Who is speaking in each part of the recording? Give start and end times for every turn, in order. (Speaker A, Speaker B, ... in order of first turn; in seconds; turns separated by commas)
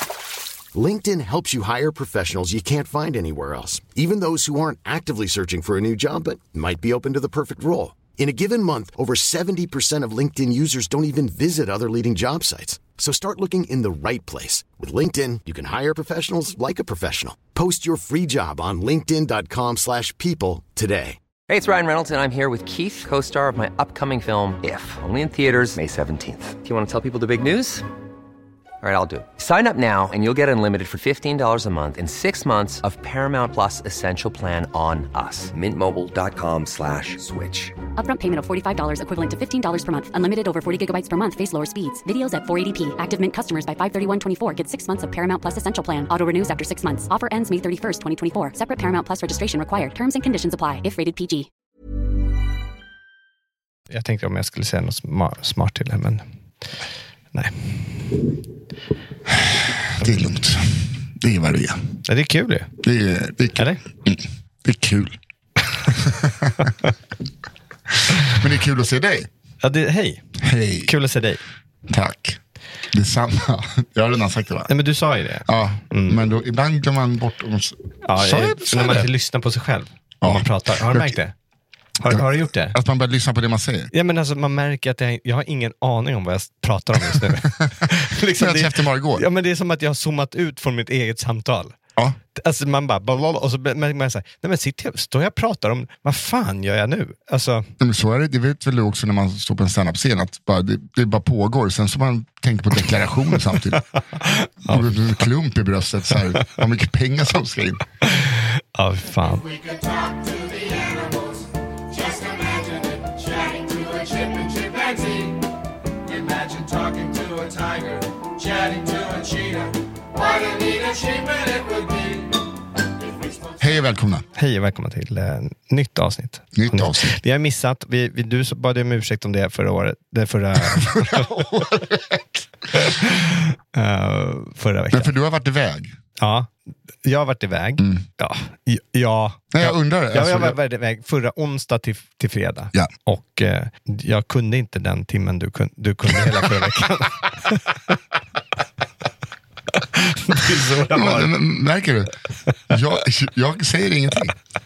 Speaker A: 0.7-21.2, Speaker B: 21.5-27.8, Speaker B: 28.8-37.7, Speaker C: 38.0-51.5, Speaker D: 53.9-56.2, Speaker D: 57.3-58.2, Speaker E: 59.3-62.0, Speaker D: 60.0-60.4, Speaker D: 62.0-62.7, Speaker E: 62.8-65.2, Speaker D: 63.5-63.8, Speaker E: 65.9-66.7, Speaker D: 66.6-66.9, Speaker E: 68.0-69.3, Speaker D: 69.6-71.4, Speaker E: 70.4-70.9, Speaker E: 71.9-74.7, Speaker D: 74.7-76.2, Speaker E: 75.5-79.1, Speaker D: 78.0-81.3, Speaker E: 80.2-81.2, Speaker D: 82.0-82.8, Speaker E: 82.1-83.9, Speaker D: 83.9-91.8, Speaker E: 87.0-89.3, Speaker D: 92.3-97.7, Speaker E: 97.8-103.8, Speaker D: 103.5-105.2, Speaker E: 104.7-107.8, Speaker D: 108.0-109.5, Speaker E: 123.6-124.3, Speaker D: 124.3-131.4, Speaker E: 126.5-127.2, Speaker E: 130.6-132.2, Speaker D: 132.7-135.1, Speaker E: 134.9-136.0, Speaker D: 136.2-136.5, Speaker D: 137.0-147.9, Speaker E: 137.8-138.0, Speaker E: 139.5-140.6, Speaker E: 146.2-146.4, Speaker D: 149.7-151.4, Speaker E: 150.9-152.1, Speaker E: 152.7-154.3